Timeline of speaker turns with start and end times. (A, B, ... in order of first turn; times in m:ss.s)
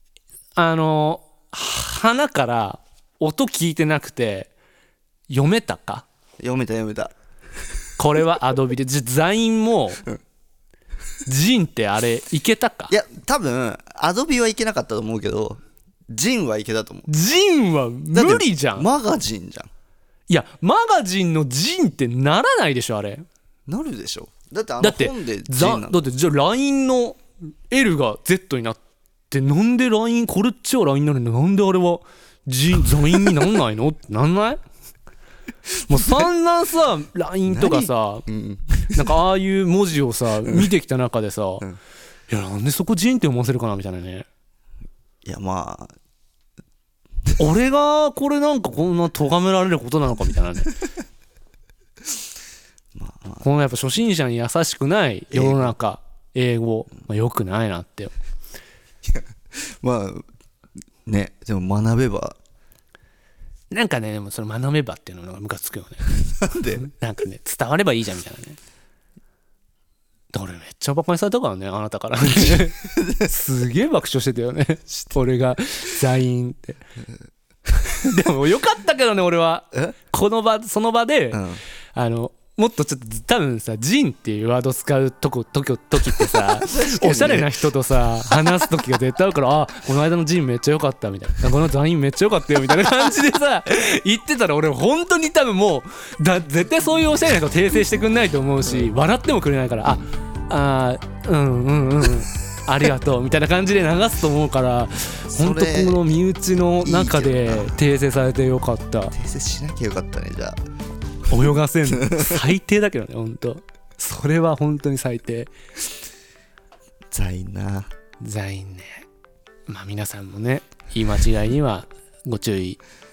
0:00.6-0:04.5 A
0:05.3-0:06.0 A
0:06.4-0:07.1 B
0:08.0-0:10.0 A
0:11.3-0:12.9 A
0:12.9-0:17.1 B
0:17.1-0:18.9 A
0:18.1-0:19.7 B
0:20.3-0:23.3 A
0:23.7-0:26.0 B
0:24.8-0:28.8 A
0:29.3-0:34.6 A
0:35.9-0:38.3 A
0:35.9-0:36.3 B
0:37.5-0:39.2 B
0:38.9-0:41.6 A
0:42.3-0:44.2 A
0:45.2-0:45.9 B
0:47.4-0:50.7 A
0:53.0-0:53.5 B
0:53.4-0:58.1 A
0:55.3-0:55.7 B
0:59.0-1:00.2 B
1:01.1-1:02.4 B
1:03.7-1:08.6 A
1:06.4-1:06.8 B
1:10.3-1:16.8 A
1:12.4-1:13.3 B
1:17.8-1:21.4 A
1:21.3-1:21.6 B
1:22.0-1:49.1 A
1:26.2-1:27.6 B
1:38.6-1:38.9 B
1:45.3-1:46.0 B
1:46.8-1:47.8 B
1:49.1-1:50.6 B
1:51.3-1:55.5 A
1:51.3-1:52.4 B
1:57.1-1:57.9 B
1:58.2-1:59.1 A
1:59.7-2:02.8 A